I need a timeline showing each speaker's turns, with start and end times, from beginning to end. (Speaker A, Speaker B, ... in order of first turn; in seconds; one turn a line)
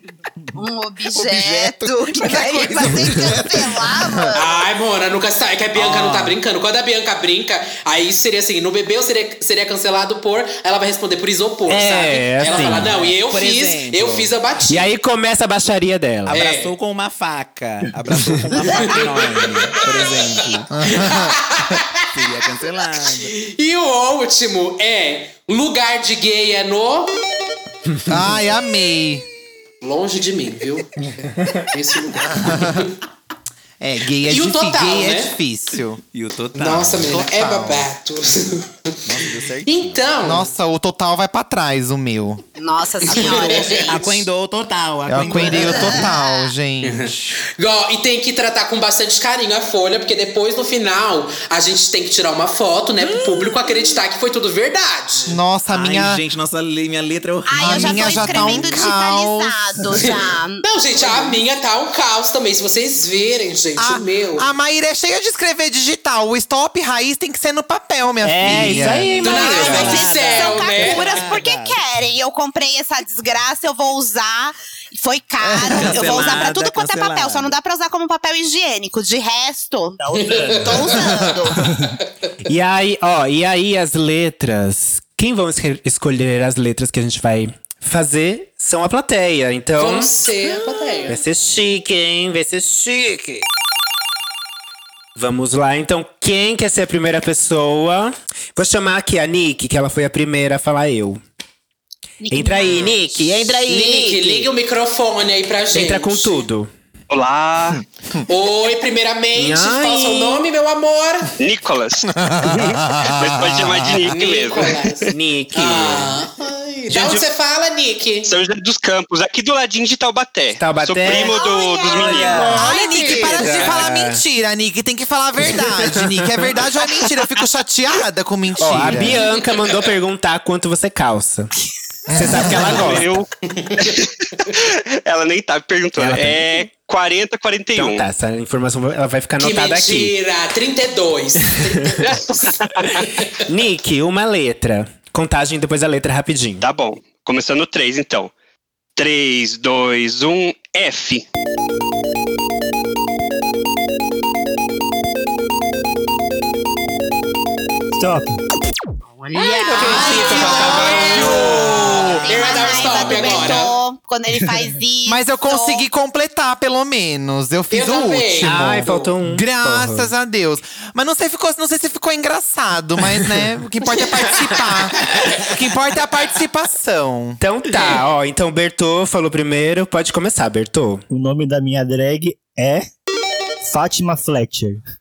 Speaker A: 0.6-4.6
Speaker B: 1.1-3.6
Speaker C: 4.3-14.9
Speaker B: 5.8-6.4
Speaker D: 11.7-12.9
Speaker B: 12.5-14.3
Speaker D: 14.7-16.4
Speaker B: 16.2-20.7
Speaker C: 16.3-16.7
Speaker C: 18.7-22.1
Speaker E: 20.8-21.4
Speaker B: 22.1-23.3
Speaker C: 23.2-27.1
Speaker E: 28.1-29.2
Speaker C: 29.8-33.0
Speaker E: 32.3-32.9
Speaker E: 33.8-36.0
Speaker C: 34.3-35.4
Speaker B: 36.1-37.2
Speaker C: 36.5-39.0
Speaker E: 37.0-37.9
Speaker B: 39.0-40.2
Speaker C: 39.6-40.5
Speaker E: 40.2-42.4
Speaker A: 42.6-44.2
Speaker B: 43.1-46.1
Speaker C: 43.1-43.9
Speaker E: 45.1-47.4
Speaker A: 45.3-46.5
Speaker C: 46.8-55.4
Speaker E: 55.3-56.2
Speaker B: 55.7-58.9
Speaker A: 57.5-60.6
Speaker E: 57.6-59.6
Speaker C: 60.0-64.5
Speaker B: 61.0-61.4
Speaker E: 63.8-69.2
Speaker D: 68.2-70.0
Speaker B: 68.5-71.8
Speaker A: 69.2-80.0
Speaker C: 69.2-71.2
Speaker B: 75.4-77.5
Speaker F: 80.0-81.1
Speaker C: 80.2-81.2
Speaker A: 80.6-81.5
Speaker E: 80.8-81.5
Speaker D: 82.5-90.1
Speaker C: 89.8-91.2
Speaker D: 91.0-93.5
Speaker D: 95.2-101.2
Speaker A: 102.2-103.5
Speaker D: 102.3-104.5
Speaker C: 103.7-106.5
Speaker D: 105.7-106.7
Speaker G: 107.1-107.8
Speaker C: 108.3-111.3
Speaker D: 109.4-110.4
Speaker G: 111.4-115.1
Speaker E: 112.2-114.0
Speaker C: 114.0-118.3
Speaker D: 115.1-116.2
Speaker G: 116.9-117.2
Speaker G: 118.2-122.5
Speaker D: 120.5-121.4
Speaker A: 121.1-123.3
Speaker D: 121.9-124.2
Speaker E: 122.4-129.2
Speaker C: 122.8-123.8
Speaker D: 128.6-131.5
Speaker E: 132.1-133.0
Speaker D: 132.1-133.2
Speaker G: 132.4-133.3
Speaker G: 135.0-138.0
Speaker D: 136.0-136.4
Speaker D: 137.7-140.1
Speaker C: 139.4-142.5
Speaker D: 143.5-146.7
Speaker G: 146.6-148.3
Speaker G: 149.0-151.2
Speaker F: 157.9-158.4
Speaker A: 159.1-165.8
Speaker C: 159.7-163.7
Speaker E: 159.8-162.5
Speaker D: 159.8-161.2
Speaker E: 165.1-177.4
Speaker C: 167.7-169.1
Speaker D: 168.4-170.1
Speaker D: 177.4-181.0
Speaker F: 181.1-182.8
Speaker F: 183.6-184.8